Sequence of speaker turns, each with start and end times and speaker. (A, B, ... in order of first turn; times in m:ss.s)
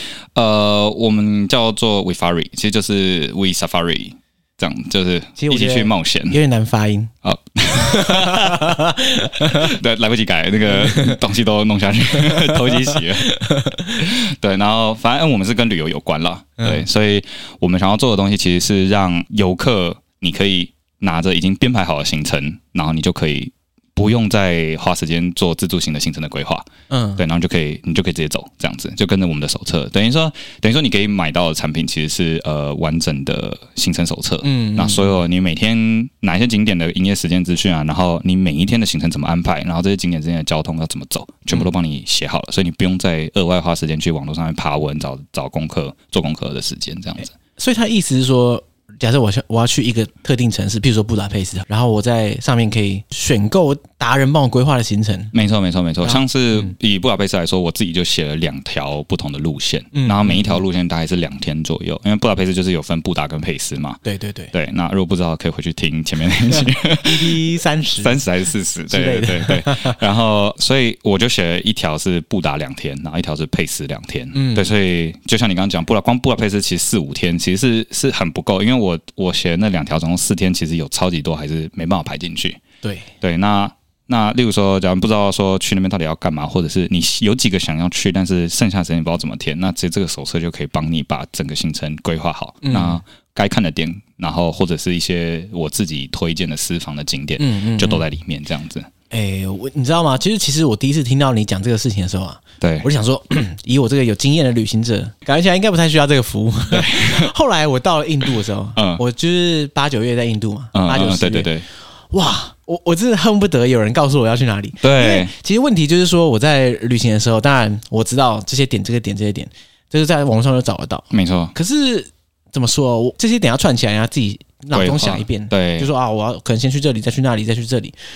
0:00.3-0:06.4 A
0:05.4-0:07.1 B
0:07.2-0:08.7 A
0:07.7-0:09.7 B
0:09.4-0:13.4 A
0:10.7-0:11.2 B
0:12.1-0:14.1 B
0:14.0-0:47.3 A
0:16.6-0:16.8 B
0:26.9-0:27.2 B
0:34.4-0:35.2 B
0:47.6-0:55.3 B
0:55.3-1:04.0 A
0:56.0-0:56.7 B
0:59.9-1:00.6 B
1:04.0-1:04.5 B
1:04.5-1:07.4 A
1:06.5-1:08.2 B
1:08.0-1:22.6 A
1:08.9-1:10.0 B
1:14.3-1:14.7 B
1:22.8-1:23.1 B
1:23.2-1:38.9 A
1:32.6-1:33.0 B
1:37.4-1:38.0 B
1:39.1-1:51.5 B
1:42.6-1:42.9 A
1:46.7-1:47.3 A
1:48.8-1:49.0 A
1:50.7-1:51.6 A
1:52.1-2:07.9 B
1:54.8-1:55.3 A
2:01.1-2:01.5 A
2:04.7-2:05.9 A